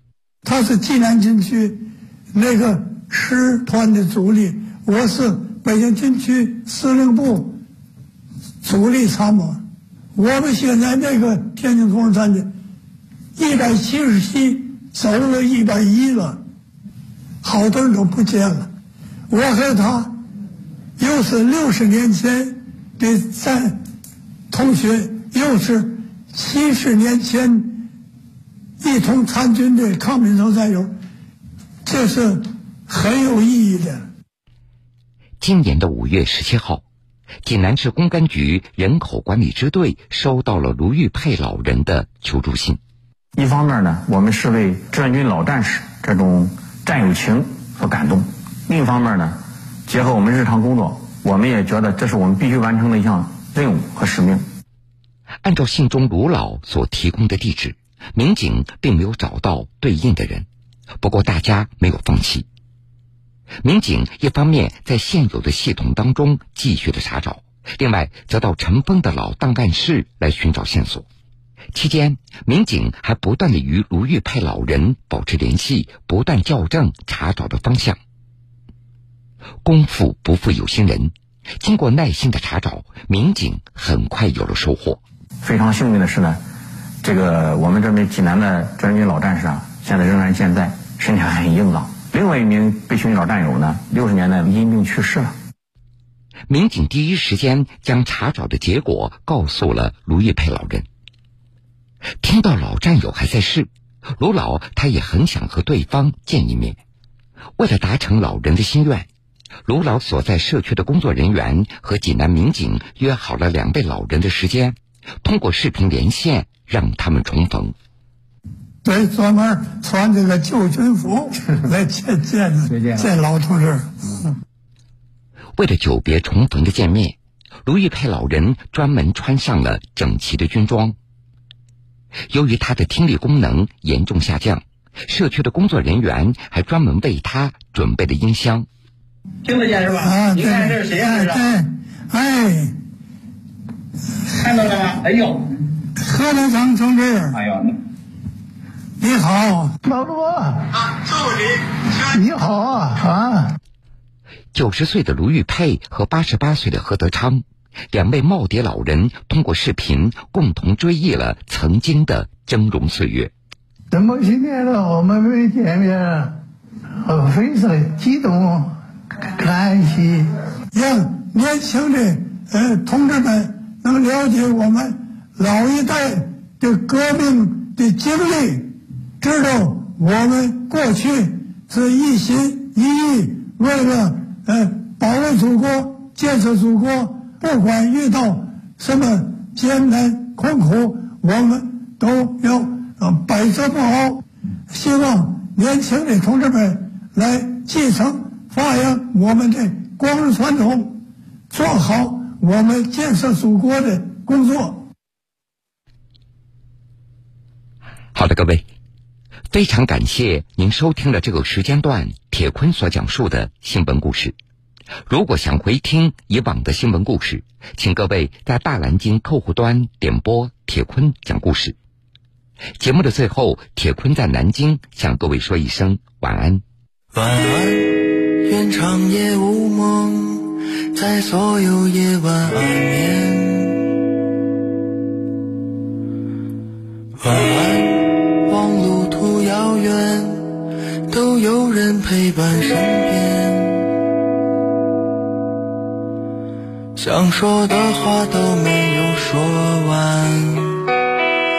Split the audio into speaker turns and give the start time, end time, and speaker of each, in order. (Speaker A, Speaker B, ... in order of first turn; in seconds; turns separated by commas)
Speaker A: 0.4-7.6, Speaker A: 8.6-9.6, Speaker A: 10.1-12.5, Speaker A: 13.3-16.4, Speaker A: 17.4-18.7, Speaker A: 19.3-20.1, Speaker A: 21.0-23.8, Speaker A: 24.5-27.9, Speaker A: 28.8-30.9, Speaker A: 31.8-34.0, Speaker B: 35.4-36.8, Speaker B: 37.4-42.8, Speaker C: 43.4-54.4, Speaker B: 55.4-60.5, Speaker B: 61.0-62.5, Speaker B: 63.6-71.0, Speaker B: 71.7-78.0, Speaker B: 79.6-85.0, Speaker C: 85.4-86.4, Speaker C: 87.0-95.3, Speaker B: 96.5-100.9, Speaker B: 102.2-106.8, Speaker B: 107.6-109.1, Speaker B: 109.7-117.7, Speaker A: 118.8-124.3, Speaker B: 125.5-130.9, Speaker B: 132.3-138.7, Speaker D: 139.4-141.3, Speaker A: 140.0-142.8, Speaker D: 144.3-145.4, Speaker A: 146.0-147.4, Speaker D: 147.3-147.7, Speaker A: 149.0-149.8, Speaker E: 149.8-150.7, Speaker E: 152.0-153.6, Speaker B: 154.5-163.3, Speaker E: 163.9-166.3, Speaker E: 167.0-170.3, Speaker A: 170.7-204.8, Speaker B: 208.1-208.7, Speaker B: 209.5-214.3, Speaker B: 215.1-221.8, Speaker B: 222.8-226.6, Speaker F: 227.1-233.8, Speaker F: 237.2-243.9, Speaker F: 246.9-250.8